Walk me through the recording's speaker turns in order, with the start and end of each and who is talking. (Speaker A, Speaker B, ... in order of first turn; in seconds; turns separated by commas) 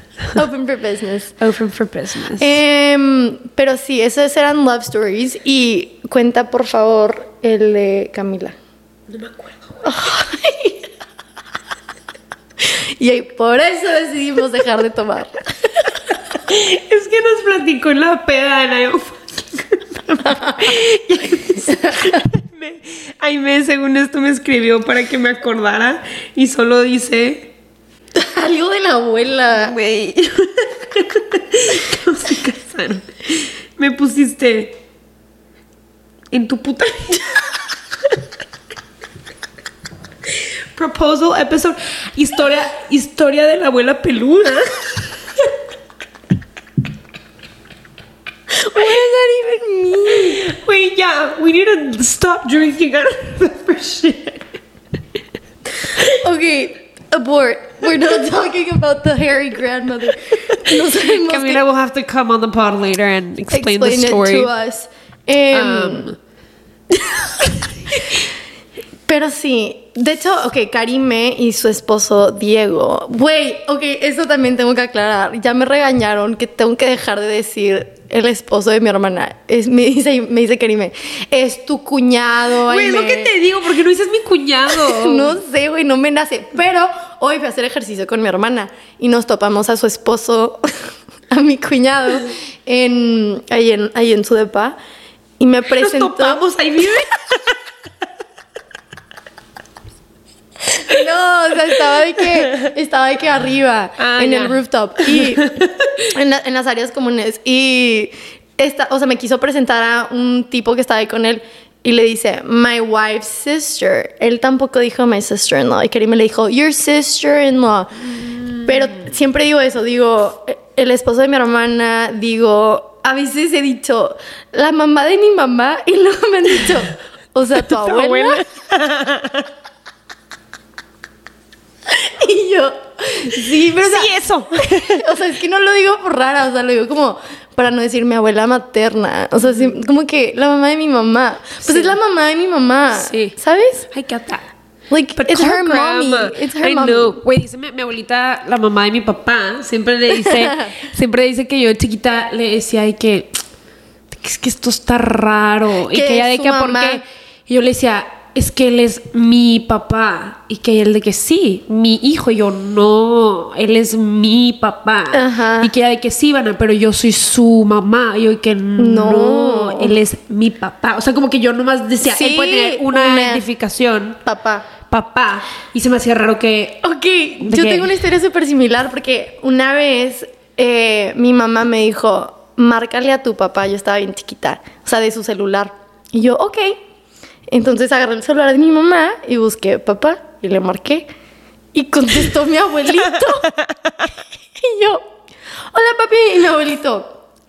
Speaker A: 0.3-1.3, Speaker B: 1.4-2.6, Speaker A: 2.4-8.6, Speaker B: 9.1-9.8, Speaker A: 9.8-10.9, Speaker A: 12.6-15.4, Speaker B: 16.1-27.5, Speaker A: 20.2-20.8, Speaker A: 21.6-22.2, Speaker A: 28.1-29.8, Speaker B: 29.5-34.8, Speaker B: 36.3-37.3, Speaker B: 40.7-45.0, Speaker A: 48.5-50.4, Speaker B: 50.2-54.5, Speaker A: 55.9-61.6, Speaker B: 60.8-64.5, Speaker A: 63.5-66.1, Speaker B: 65.5-66.2, Speaker A: 66.9-68.2, Speaker A: 69.1-83.3, Speaker B: 82.7-85.4, Speaker A: 84.7-90.6, Speaker A: 91.3-94.8, Speaker A: 95.4-96.4, Speaker B: 95.7-97.6, Speaker A: 100.8-105.5, Speaker B: 102.4-102.7, Speaker B: 104.0-106.1, Speaker A: 106.1-118.1, Speaker A: 118.6-128.4, Speaker B: 127.5-129.5, Speaker A: 131.9-134.2, Speaker B: 133.3-135.1, Speaker A: 134.8-143.9, Speaker B: 141.6-141.9, Speaker B: 142.9-143.3, Speaker B: 143.9-144.4, Speaker A: 144.9-147.2, Speaker B: 145.2-153.4, Speaker B: 154.1-174.2, Speaker A: 155.9-157.0, Speaker A: 165.1-165.7, Speaker A: 168.8-170.0, Speaker A: 172.0-173.4, Speaker A: 174.2-174.7, Speaker B: 174.9-176.8, Speaker A: 176.8-186.8, Speaker B: 177.4-178.0, Speaker A: 187.5-191.1, Speaker A: 191.7-193.5, Speaker A: 194.6-195.0, Speaker A: 195.7-197.2